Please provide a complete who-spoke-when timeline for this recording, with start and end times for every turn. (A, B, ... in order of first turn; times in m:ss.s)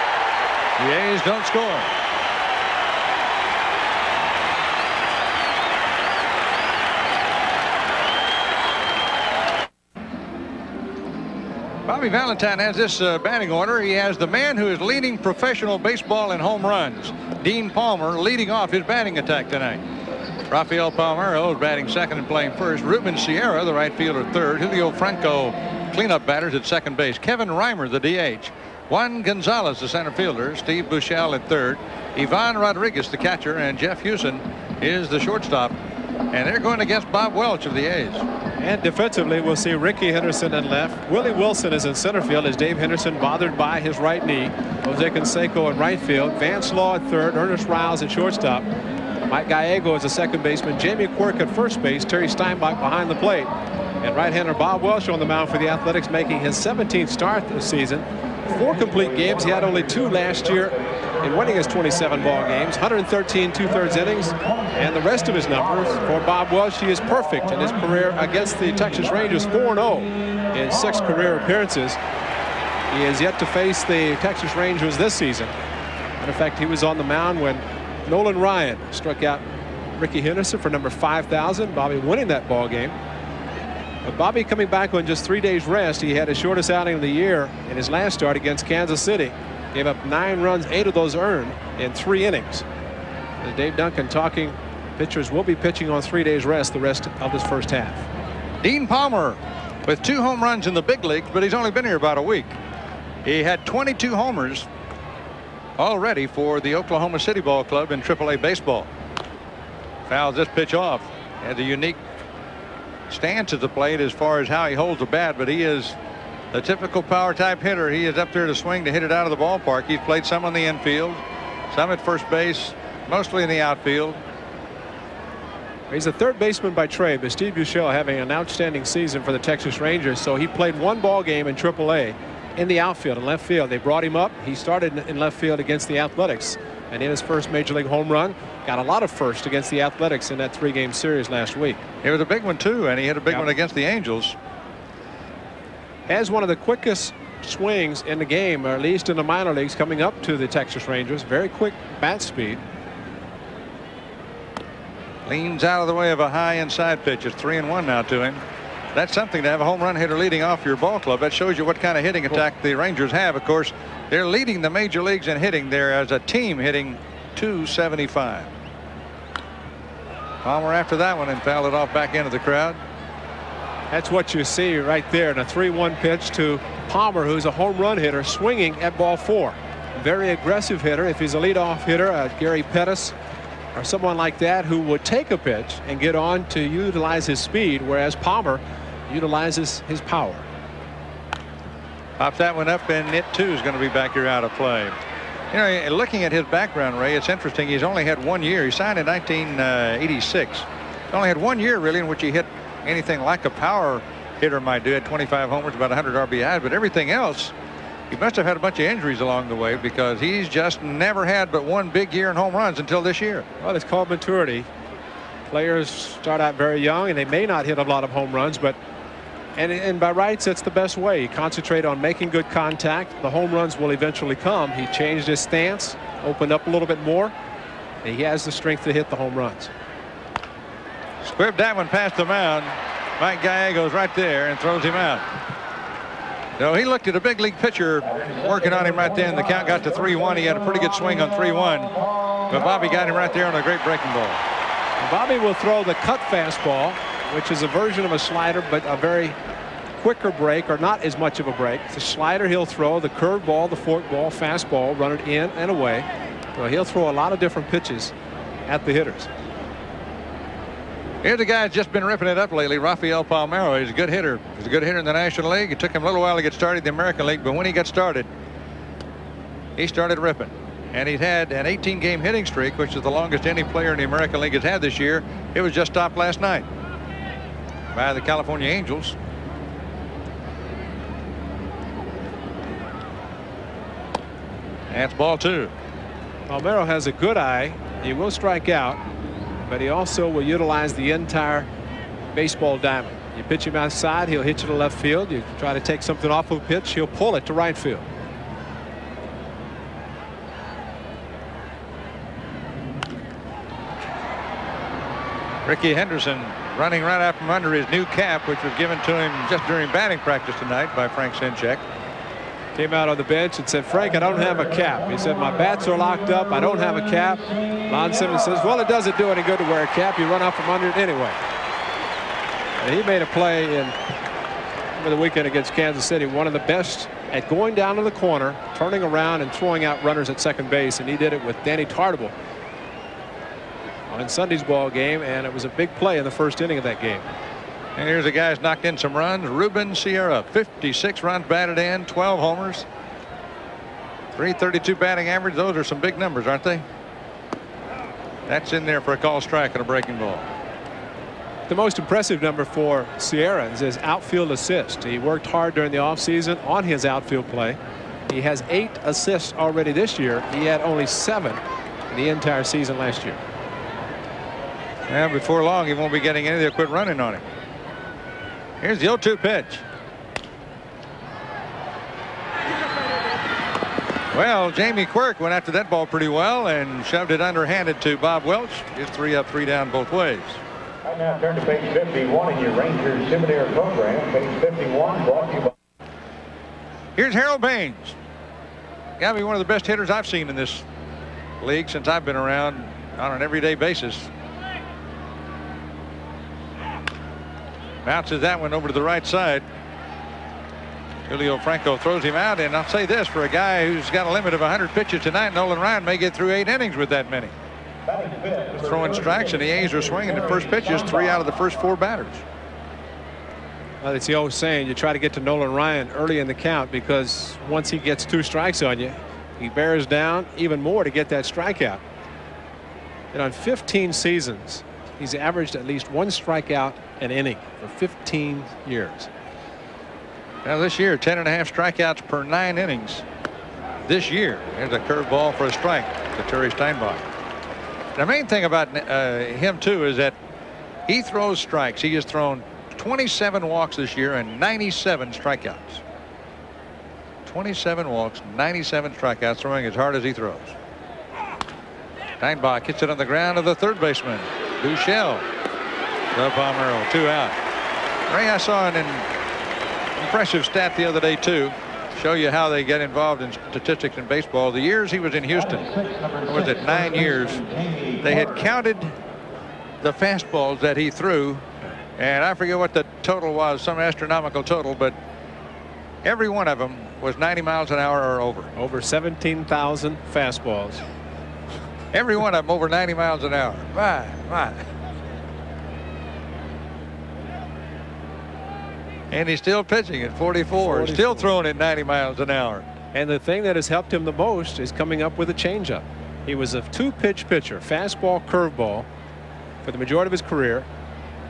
0:00.8-0:01.9 A
0:11.9-0:19.8 A
0:20.5-0:35.8 A
0:36.3-0:38.2 A
0:38.6-0:48.7 B
0:49.3-1:12.0 B
1:12.9-1:15.5 B
1:16.2-1:19.4 B
1:20.0-1:23.0 B
1:24.0-1:32.6 B
1:33.4-1:38.1 B
1:38.6-1:42.6 A
1:43.2-1:44.7 A
1:45.8-1:48.9 A
1:50.1-1:52.0 A
1:53.1-1:56.0 A
1:56.5-2:04.2 A
2:05.9-2:21.8 B
2:22.0-2:24.4 A
2:26.1-2:32.6 B
2:35.2-2:38.4 A
2:38.9-2:48.5 A
2:50.4-2:52.8 A
2:53.9-3:03.2 B
3:03.8-3:10.5 B
3:12.2-3:15.0 A
3:15.5-3:27.5 A
3:28.1-3:33.5 A
3:33.6-3:34.7 B
3:35.5-3:38.8 B
3:39.6-3:47.3 B
3:48.0-3:49.7 B
3:51.2-3:55.2 A
3:56.6-4:04.4 A
4:05.0-4:09.4 B
4:10.0-4:18.1 B
4:18.7-4:19.3 B
4:21.2-4:28.3 A
4:29.8-4:36.7 A
4:37.9-4:39.2 A
4:44.9-4:45.7 A
4:46.5-4:49.0 B
4:49.7-4:51.7 B
4:52.3-4:58.1 B
5:05.6-5:11.8 A
5:12.8-5:21.4 B
5:22.8-5:24.0 B
5:25.0-5:32.4 B
5:34.1-5:37.2 B
5:38.0-5:42.9 A
5:44.4-5:46.8 A
5:48.5-5:50.5 A
5:51.7-5:57.8 B
5:58.3-6:03.4 B
6:05.1-6:07.4 A
6:08.8-6:09.8 A
6:14.3-6:20.6 A
6:21.2-6:25.7 C
6:27.2-6:28.2 A
6:29.2-6:30.8 A
6:31.6-6:34.3 A
6:38.0-6:39.6 A
6:41.3-6:47.5 A
6:48.6-6:52.4 A
6:54.0-7:02.0 B
7:03.3-7:09.3 B
7:10.6-7:13.2 A
7:14.0-7:17.2 A
7:18.2-7:20.4 A
7:21.1-7:26.0 A
7:27.4-7:30.8 A
7:32.4-7:35.5 A
7:36.3-7:37.6 A
7:38.3-7:39.3 A
7:40.2-7:49.2 A
7:50.0-7:55.2 A
7:56.2-7:58.7 A
7:58.8-8:01.0 B
8:02.1-8:04.8 A
8:09.3-8:12.9 A
8:10.8-8:11.5 B
8:13.1-8:19.1 B
8:19.8-8:20.9 B